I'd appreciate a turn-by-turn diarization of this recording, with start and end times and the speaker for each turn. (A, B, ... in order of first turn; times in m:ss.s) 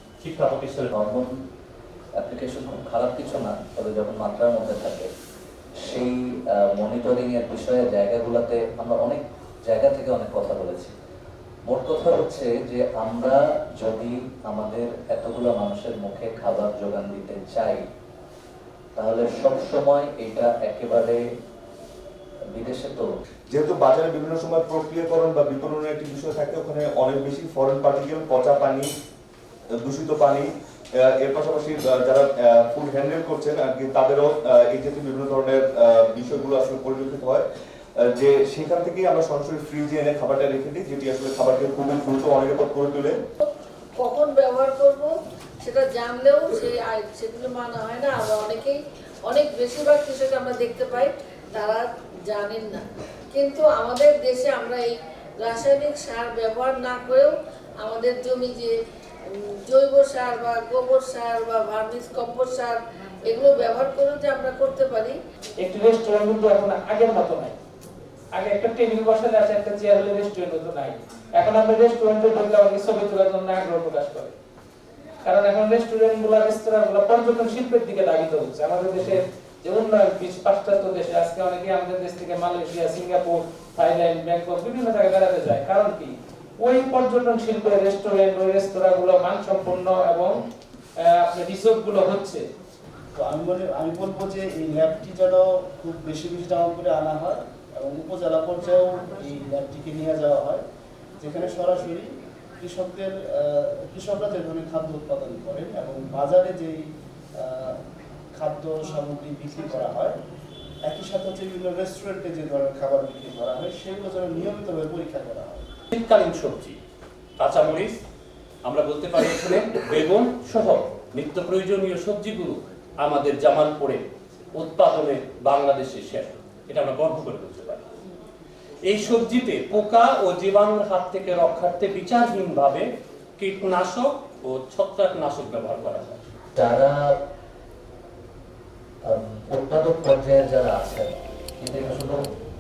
0:00.2-0:00.9 A
0:00.9-0:01.4 B
0:02.2-0:05.1 B
0:05.8-0:10.9 B
0:11.7-0:17.8 B
0:19.0-0:21.2 B
0:22.5-0:23.1 B
0:23.5-0:28.9 C
0:29.8-0:37.4 C
0:38.0-0:43.2 C
0:43.4-0:45.1 D
0:45.6-0:52.8 D
0:53.3-0:57.3 D
0:57.8-0:58.7 D
0:59.7-1:02.8 D
1:03.3-1:05.2 D
1:05.6-1:07.6 E
1:08.4-1:14.3 E
1:15.2-1:30.4 E
1:31.0-1:32.4 E
1:33.2-1:40.6 F
1:41.2-1:42.1 F
1:42.6-1:47.8 F
1:48.3-1:50.2 F
1:50.8-1:55.6 F
1:55.9-1:56.8 A
1:57.4-1:58.0 A
1:58.6-2:04.0 A
2:04.6-2:07.9 A
2:08.9-2:12.8 A
2:13.4-2:16.2 A
2:16.6-2:17.1 B
2:19.1-2:22.2 B